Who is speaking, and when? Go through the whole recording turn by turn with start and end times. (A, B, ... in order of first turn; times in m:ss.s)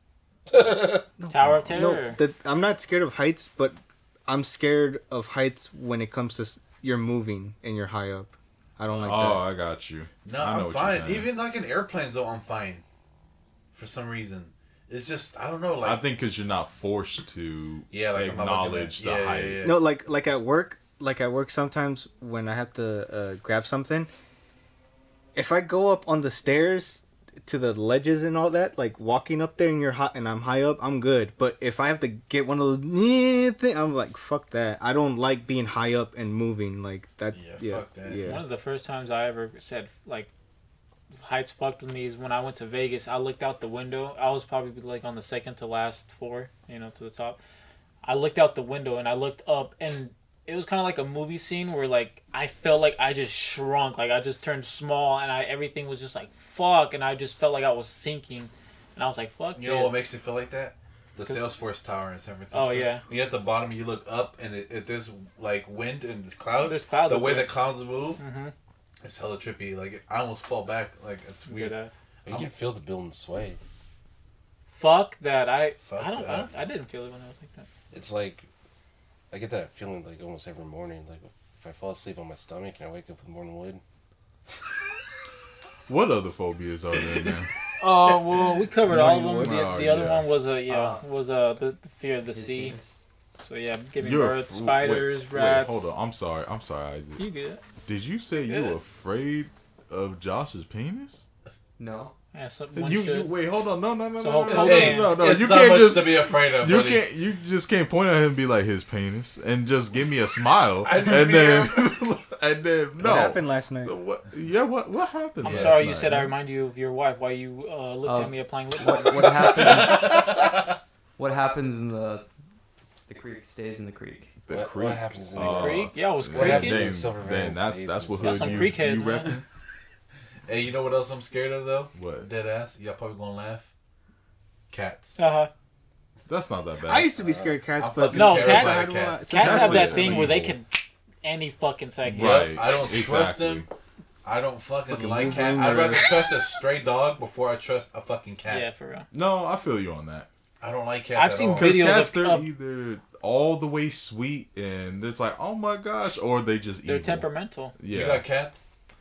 0:00.5-0:01.0 A
0:01.2-0:09.5 B
0:01.3-0:02.2 C
0:01.4-0:01.9 D
0:09.0-0:11.3 D
0:10.2-0:12.8 E
0:13.7-0:16.0 E
0:15.8-0:19.7 D
0:17.9-0:19.8 E
0:19.6-0:24.1 B
0:25.3-0:38.4 B
0:37.3-0:38.2 E
0:38.2-0:40.3 C
0:41.2-0:47.4 C
0:48.0-1:00.0 C
0:59.5-1:08.2 E
1:02.5-1:03.0 C
1:06.6-1:07.6 C
1:08.2-1:08.5 C
1:09.0-1:11.8 E
1:11.5-1:11.9 C
1:12.2-1:13.6 A
1:12.3-1:12.5 E
1:14.7-1:17.7 C
1:15.8-1:16.5 E
1:17.9-1:18.5 A
1:19.3-1:23.8 A
1:25.9-1:27.5 D
1:27.0-1:28.4 E
1:27.8-1:32.8 C
1:28.8-1:29.6 B
1:29.0-1:30.3 D
1:30.6-1:31.0 F
1:32.3-1:33.0 F
1:33.4-1:35.9 C
1:34.0-1:37.2 D
1:37.2-1:37.6 C
1:37.9-1:41.2 D
1:41.8-1:42.1 F
1:42.3-1:43.4 C
1:42.7-1:56.3 D
1:44.2-1:45.2 C
1:44.4-1:47.0 E
1:50.8-1:52.0 E
1:53.0-1:53.9 B
1:55.4-1:59.6 C
1:55.4-1:55.9 E
1:58.0-2:00.5 F
1:59.3-2:00.5 E
2:01.2-2:02.2 F
2:03.1-2:04.3 F
2:04.4-2:09.4 D
2:04.5-2:08.7 A
2:05.4-2:06.9 C
2:08.2-2:09.3 C
2:10.5-2:13.7 E
2:11.9-2:12.3 D
2:14.7-2:15.2 E
2:15.2-2:15.5 C
2:16.3-2:17.1 D
2:16.9-2:20.3 B
2:17.2-2:17.6 A
2:17.8-2:19.5 E
2:18.1-2:22.5 C
2:19.4-2:20.6 D
2:22.1-2:23.7 D
2:22.1-2:23.6 E
2:24.2-2:28.6 E
2:24.9-2:26.3 B
2:28.5-2:29.1 C
2:29.1-2:30.3 D
2:30.6-2:31.8 E
2:31.2-2:32.5 C
2:31.6-2:38.2 D
2:36.8-2:37.8 C
2:37.9-2:38.6 E